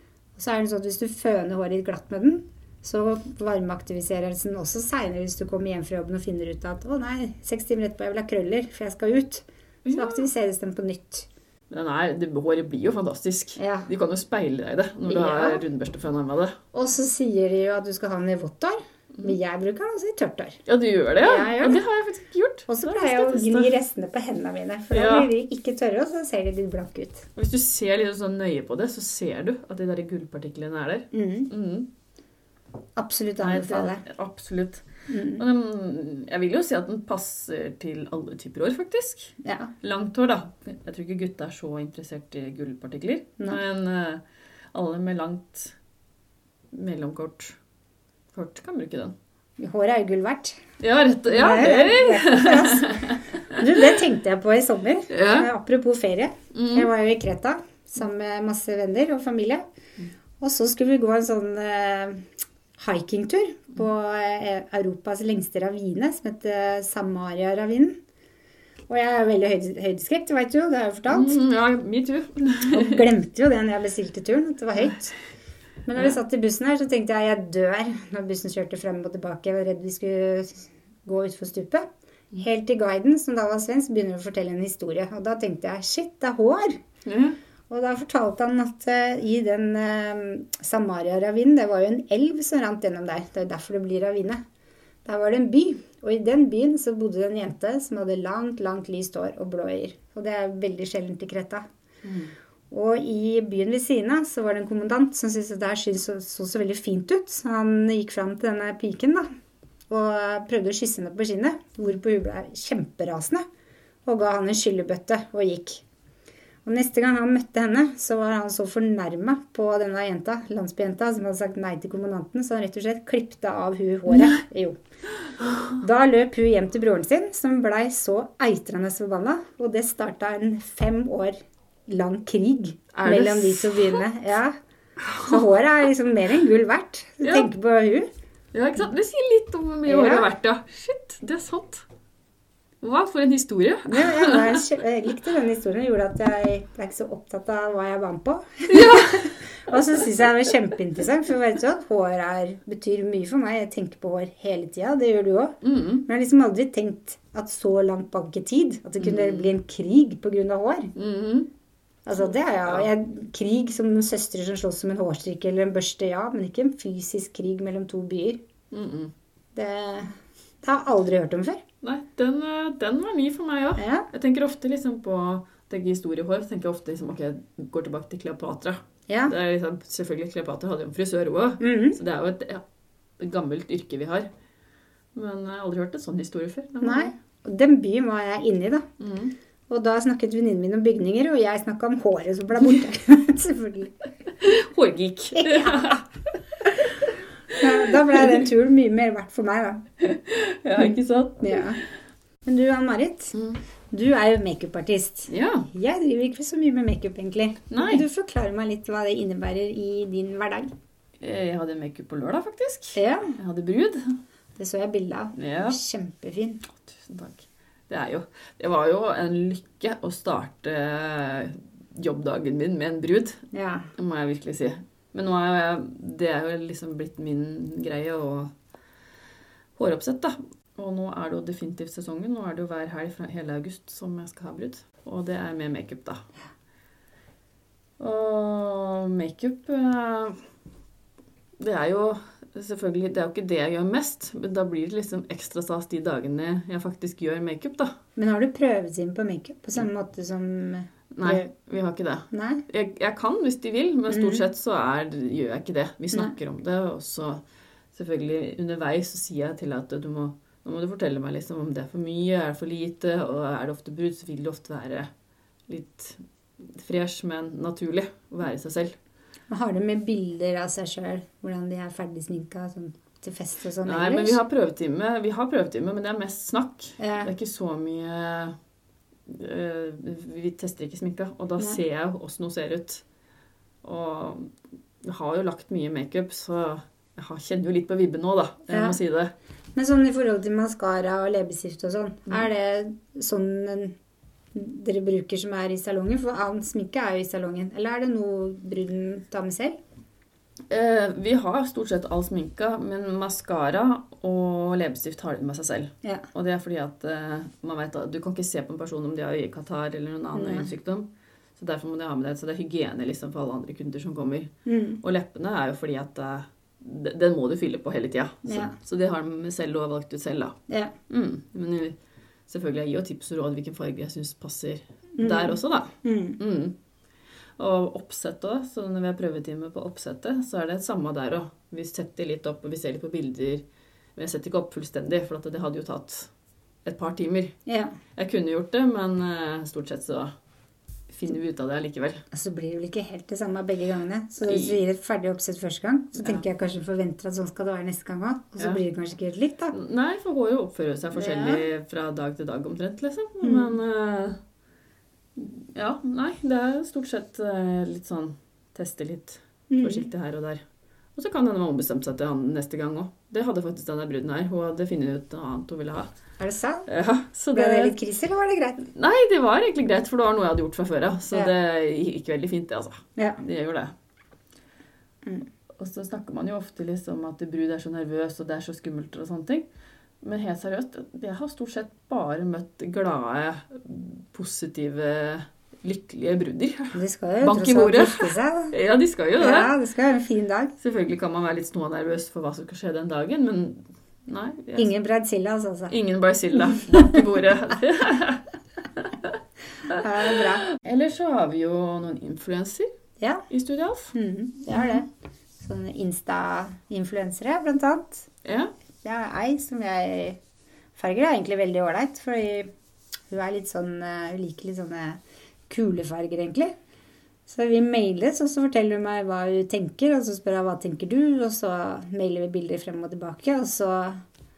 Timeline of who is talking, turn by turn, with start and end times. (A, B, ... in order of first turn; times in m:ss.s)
0:00.4-0:11.3 A
0:09.8-0:10.2 B
0:11.7-0:16.6 B
0:13.6-0:13.9 A
0:15.1-0:15.6 A
0:16.7-0:20.6 A
0:20.6-0:23.7 B
0:21.2-0:21.8 A
0:22.7-0:27.3 A
0:24.9-0:25.3 B
0:27.4-0:31.9 B
0:31.1-0:31.5 A
0:33.0-0:34.0 A
0:33.4-0:45.7 B
0:35.1-0:35.4 A
0:39.4-0:39.7 A
0:46.7-0:47.6 B
0:48.3-0:49.1 B
0:49.6-0:50.6 A
0:50.8-0:53.7 B
0:51.2-0:59.6 A
0:55.1-0:55.5 B
0:56.5-0:56.9 B
1:00.4-1:08.0 A
1:08.9-1:11.4 A
1:11.1-1:13.0 B
1:12.7-1:15.1 A
1:15.8-1:26.8 A
1:27.0-1:27.4 B
1:27.7-1:34.4 A
1:35.0-1:41.6 A
1:42.0-1:42.3 B
1:42.7-1:49.3 A
1:49.9-1:53.4 A
1:54.0-1:55.8 A
1:56.6-2:04.8 A
2:05.8-2:14.5 A
2:12.9-2:14.0 B
2:15.0-2:15.4 B
2:15.2-2:18.1 A
2:17.2-2:17.5 B
2:18.5-2:21.8 B
2:19.8-2:20.3 A
2:22.8-2:24.6 B
2:23.9-2:40.9 A
2:28.7-2:29.3 B
2:35.6-2:36.0 B
2:39.0-2:39.5 B
2:41.0-2:41.5 B
2:42.0-2:48.4 A
2:42.2-2:42.9 B
2:48.7-2:49.1 B
2:49.5-2:51.6 A
2:51.8-3:02.6 B
2:53.8-2:54.1 A
2:59.1-2:59.3 A
3:01.6-3:02.0 A
3:03.2-3:04.3 B
3:05.1-3:07.1 B
3:06.8-3:08.9 A
3:09.0-3:09.3 B
3:09.7-3:13.9 A
3:14.4-3:16.1 B
3:15.3-3:15.9 A
3:17.6-3:19.8 A
3:17.8-3:18.3 B
3:20.0-3:21.7 B
3:20.8-3:21.8 A
3:22.4-3:23.3 A
3:23.9-3:30.7 A
3:25.3-3:25.7 B
3:27.7-3:28.0 B
3:31.2-3:34.2 B
3:32.9-3:33.4 A
3:34.6-3:36.6 A
3:35.3-3:35.8 B
3:36.7-3:43.4 B
3:43.5-3:43.9 A
3:44.0-3:48.5 B
3:49.8-3:56.2 B
3:58.0-4:00.4 B
4:01.6-4:07.9 B
4:08.2-4:11.5 A
4:11.1-4:17.4 B
4:12.3-4:12.6 A
4:14.1-4:14.4 A
4:17.9-4:25.1 B
4:25.7-4:29.0 B
4:29.5-4:34.4 A
4:33.8-4:38.6 B
4:37.0-4:37.3 A
4:39.3-4:43.0 B
4:43.8-4:49.3 B
4:48.7-4:49.0 A
4:49.8-4:54.0 A
4:54.5-4:59.8 A
5:00.7-5:22.0 B
5:10.3-5:10.7 A
5:14.6-5:15.0 A
5:18.4-5:18.8 A
5:20.7-5:20.9 A
5:22.5-5:26.8 B
5:25.2-5:26.4 A
5:27.6-5:33.6 B
5:34.2-5:36.3 B
5:36.8-5:37.6 B
5:37.7-5:37.9 A
5:38.1-5:40.3 B
5:41.1-5:42.2 B
5:42.3-5:49.7 A
5:44.4-5:44.8 B
5:46.2-5:46.4 B
5:49.7-5:54.4 B
5:51.1-5:51.7 A
5:53.4-5:53.8 A
5:55.3-6:00.6 B
5:59.7-6:00.1 A
6:01.1-6:06.1 B
6:06.4-6:06.9 A
6:06.9-6:08.0 B
6:07.5-6:08.8 A
6:08.8-6:13.9 B
6:13.2-6:13.4 A
6:15.8-6:19.7 B
6:20.2-6:29.7 B
6:26.9-6:28.7 A
6:29.4-6:30.7 A
6:30.8-6:34.9 B
6:34.8-6:35.9 A
6:35.9-6:38.4 B
6:36.7-6:37.2 A
6:39.0-6:42.9 B
6:39.9-6:40.6 A
6:43.2-6:43.5 A
6:43.5-6:44.1 B
6:44.1-6:45.1 A
6:44.7-6:45.0 B
6:45.6-6:48.3 A
6:48.4-6:48.7 B
6:49.0-6:50.4 A
6:51.0-6:52.7 A
6:53.3-6:56.7 A
6:57.5-7:04.2 A